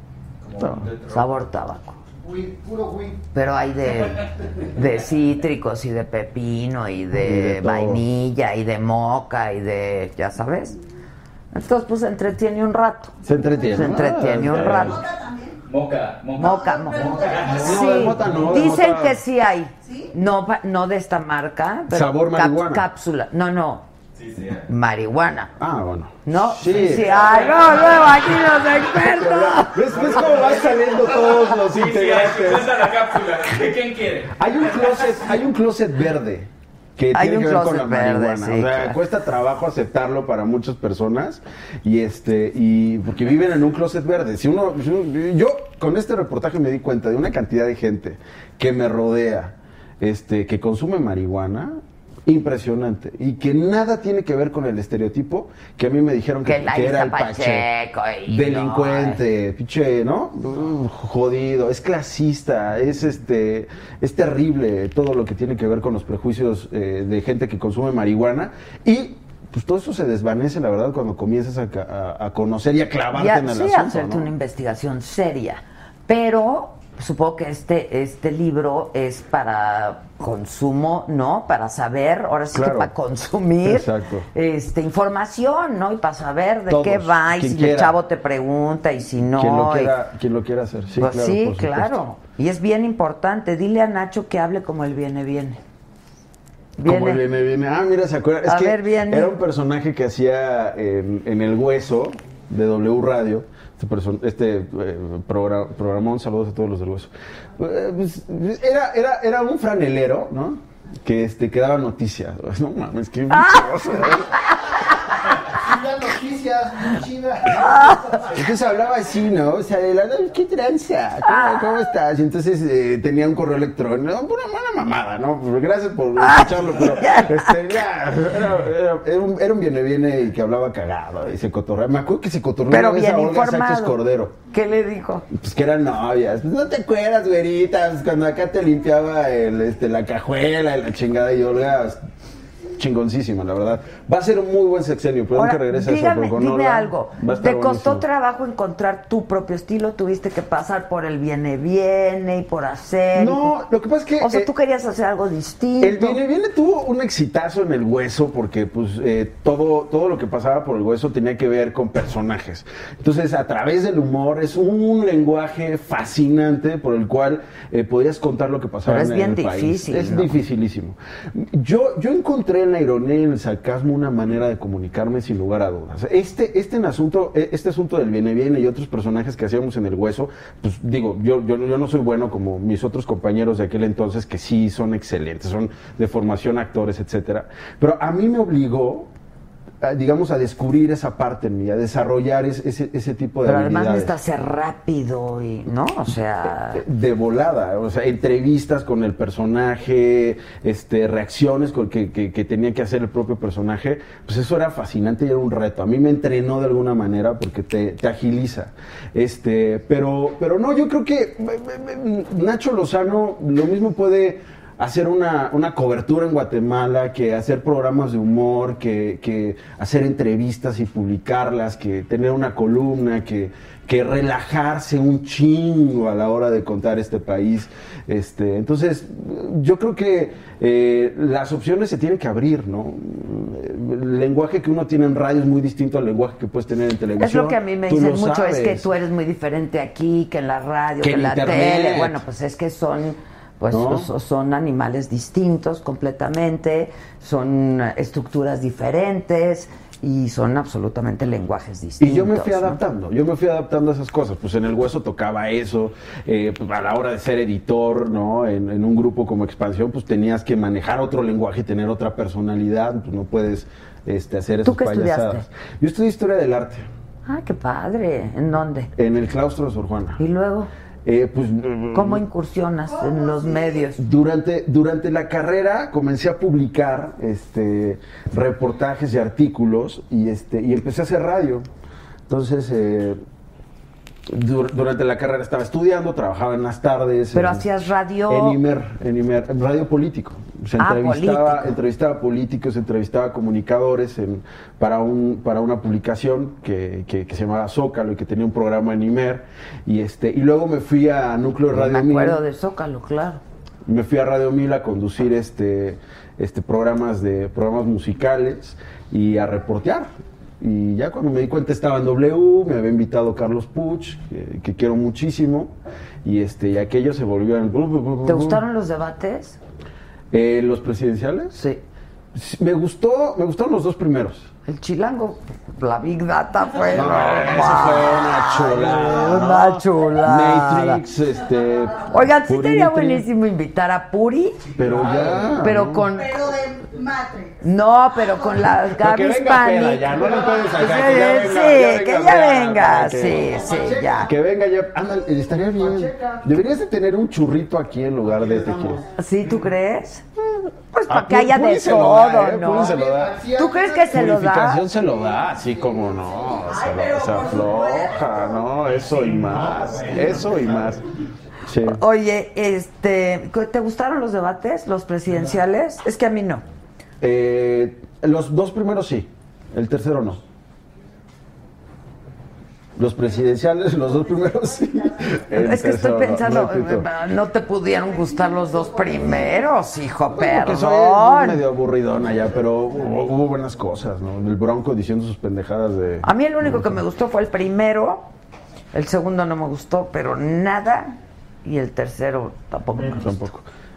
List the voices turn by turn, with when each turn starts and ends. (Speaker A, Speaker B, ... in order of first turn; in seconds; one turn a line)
Speaker A: 0.4-1.3
Speaker B: 1.0-1.9
Speaker C: 2.2-3.2
Speaker B: 3.3-10.8
Speaker D: 7.1-8.0
Speaker B: 11.5-13.1
Speaker D: 13.2-15.0
Speaker B: 13.7-15.0
Speaker E: 14.8-15.6
Speaker A: 15.7-17.7
Speaker E: 16.4-18.0
Speaker B: 16.4-23.8
Speaker D: 17.5-19.2
Speaker E: 19.8-20.1
Speaker D: 21.9-22.8
Speaker A: 24.2-24.6
Speaker B: 24.7-25.5
Speaker D: 25.6-27.2
Speaker B: 26.2-29.9
Speaker D: 28.9-32.7
Speaker A: 30.0-34.4
Speaker D: 34.4-57.7
Speaker B: 37.1-39.0
Speaker B: 56.4-59.2
Speaker D: 58.2-74.3
Speaker B: 73.1-89.9
Speaker D: 82.5-82.9
Speaker D: 83.6-84.2
Speaker D: 86.7-87.9
Speaker D: 89.3-92.0
Speaker B: 91.0-95.6
Speaker B: 96.8-97.2
Speaker D: 96.8-114.3
Speaker B: 98.4-99.3
Speaker B: 113.3-113.7
Speaker C: 115.6-118.4
Speaker B: 117.6-118.0
Speaker D: 118.3-134.4
Speaker B: 121.2-121.8
Speaker B: 126.2-127.5
Speaker B: 132.7-134.0
Speaker B: 134.5-135.2
Speaker D: 135.3-142.0
Speaker D: 142.8-148.0
Speaker B: 145.3-153.6
Speaker D: 153.1-154.5
Speaker B: 154.2-156.2
Speaker D: 155.8-189.1
Speaker B: 168.8-170.4
Speaker D: 189.8-194.1
Speaker B: 193.4-196.8
Speaker D: 196.7-238.9
Speaker B: 237.2-252.8
Speaker D: 241.0-242.2
Speaker D: 243.7-244.1
Speaker D: 252.0-266.9
Speaker B: 264.6-265.4
Speaker B: 267.3-268.9
Speaker D: 268.9-270.2
Speaker B: 270.2-270.7
Speaker D: 271.0-272.2
Speaker B: 271.9-274.0
Speaker E: 272.9-273.8
Speaker D: 273.9-281.7
Speaker D: 282.3-283.2
Speaker D: 284.3-287.7
Speaker B: 287.3-288.6
Speaker D: 288.3-302.4
Speaker B: 290.8-291.7
Speaker B: 301.7-303.4
Speaker D: 303.9-310.1
Speaker D: 310.6-315.7
Speaker D: 316.2-318.6
Speaker B: 318.2-319.6
Speaker D: 320.3-321.6
Speaker B: 321.5-321.8
Speaker D: 322.3-324.5
Speaker B: 324.6-331.0
Speaker D: 326.9-333.2
Speaker B: 332.1-334.7
Speaker D: 334.8-336.1
Speaker B: 335.6-336.4
Speaker E: 336.1-337.6
Speaker B: 337.6-344.3
Speaker E: 338.2-338.5
Speaker D: 338.9-349.0
Speaker C: 340.3-340.6
Speaker C: 343.5-344.3
Speaker C: 345.7-346.5
Speaker C: 348.4-349.0
Speaker B: 349.2-350.2
Speaker B: 350.9-352.9
Speaker D: 351.1-353.4
Speaker C: 352.7-354.3
Speaker B: 353.5-354.8
Speaker D: 354.1-361.0
Speaker C: 355.1-356.5
Speaker E: 356.7-358.6
Speaker D: 361.6-362.0
Speaker B: 361.9-366.6
Speaker D: 367.2-370.4
Speaker D: 372.9-377.1
Speaker B: 375.6-381.6
Speaker D: 380.3-387.0
Speaker B: 386.2-388.3
Speaker B: 388.9-393.4
Speaker D: 392.9-393.6